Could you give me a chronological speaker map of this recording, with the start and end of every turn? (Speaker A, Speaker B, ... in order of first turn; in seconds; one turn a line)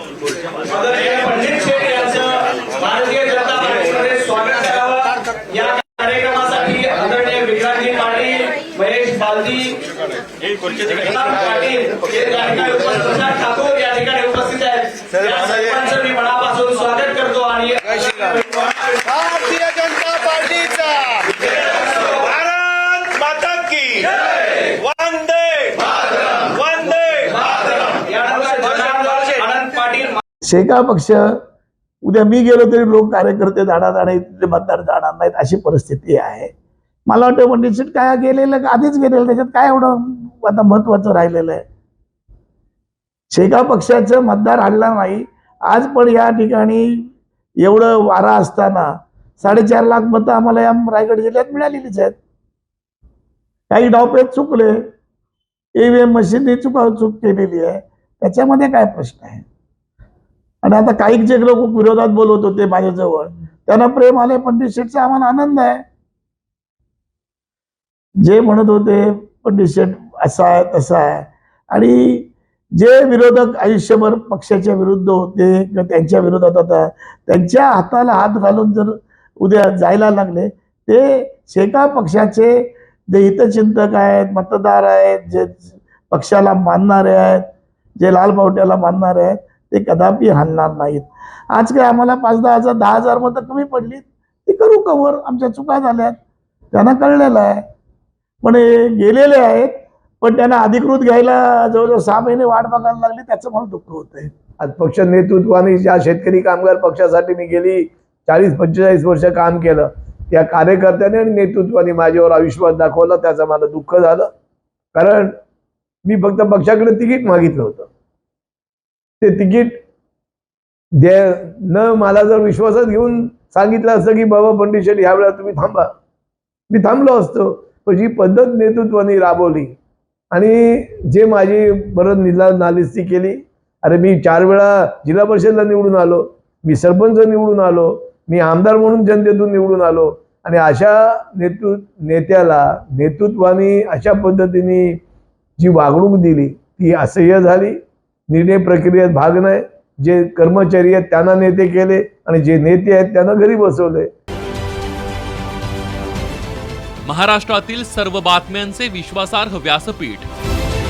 Speaker A: 0.7-9.8
Speaker A: 10.7-19.4
Speaker B: 19.3-21.1
Speaker A: 21.2-22.4
Speaker B: 22.4-23.9
Speaker A: 23.9-24.9
Speaker B: 24.9-25.7
Speaker A: 25.8-30.2
Speaker C: 30.4-31.4
Speaker C: 32.0-36.5
Speaker C: 37.1-41.6
Speaker C: 43.3-47.1
Speaker C: 47.6-52.2
Speaker C: 53.7-54.8
Speaker C: 55.8-59.5
Speaker C: 60.6-65.8
Speaker C: 68.2-87.5
Speaker C: 88.0-96.2
Speaker C: 96.7-97.6
Speaker C: 98.4-104.3
Speaker D: 104.6-114.3
Speaker D: 115.0-115.4
Speaker D: 116.0-117.9
Speaker D: 119.2-119.8
Speaker D: 121.0-125.9
Speaker D: 126.7-129.7
Speaker D: 130.3-145.0
Speaker D: 145.6-147.8
Speaker D: 148.3-154.1
Speaker E: 157.0-160.3